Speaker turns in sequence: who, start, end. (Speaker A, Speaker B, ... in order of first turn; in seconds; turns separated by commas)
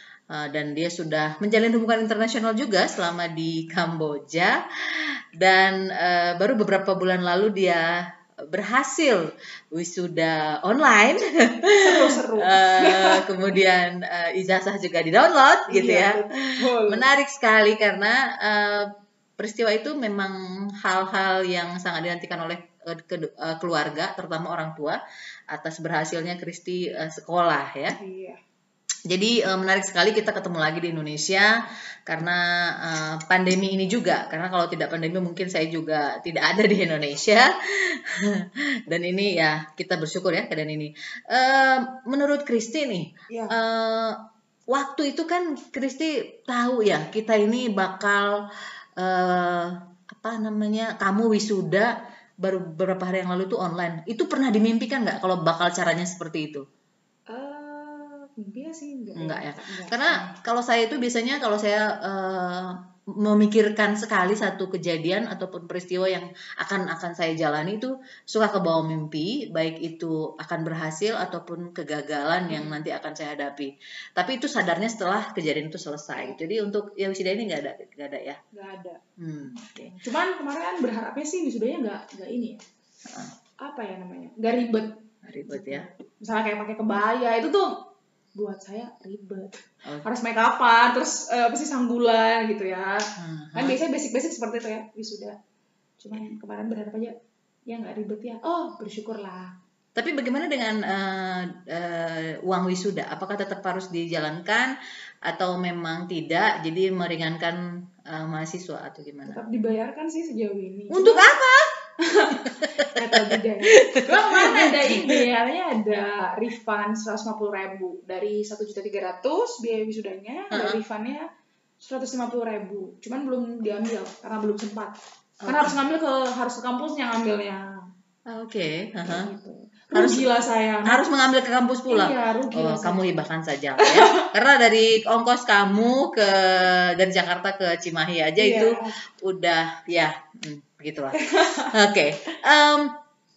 Speaker A: 0.3-7.8, Speaker A: 8.5-16.2, Speaker B: 11.8-13.2, Speaker B: 15.7-17.1, Speaker A: 16.8-25.0, Speaker A: 25.5-27.9, Speaker B: 28.0-28.4, Speaker A: 29.1-31.5, Speaker A: 32.1-44.1, Speaker B: 43.3-43.5, Speaker A: 44.7-48.3, Speaker A: 49.0-51.9, Speaker A: 52.4-56.6, Speaker B: 57.3-60.3, Speaker A: 59.1-78.4, Speaker B: 72.5-72.8, Speaker B: 78.5-79.0, Speaker A: 79.2-80.0, Speaker B: 79.8-82.6, Speaker B: 83.6-84.9, Speaker A: 85.2-85.9, Speaker B: 85.5-87.7, Speaker B: 88.4-93.0, Speaker A: 93.2-93.8, Speaker B: 93.5-95.3, Speaker B: 96.0-97.1, Speaker B: 97.7-99.5, Speaker A: 100.0-104.7, Speaker A: 105.2-109.4, Speaker B: 109.3-111.3, Speaker A: 110.9-111.6, Speaker B: 112.0-121.2, Speaker A: 112.4-115.2, Speaker A: 120.5-120.8, Speaker B: 121.8-124.9, Speaker A: 125.4-125.8, Speaker B: 125.5-127.6, Speaker A: 128.3-129.3, Speaker B: 129.1-131.0, Speaker A: 129.9-130.2, Speaker A: 130.9-142.9, Speaker B: 131.9-133.2, Speaker B: 133.8-134.2, Speaker B: 138.4-138.9, Speaker B: 141.2-141.7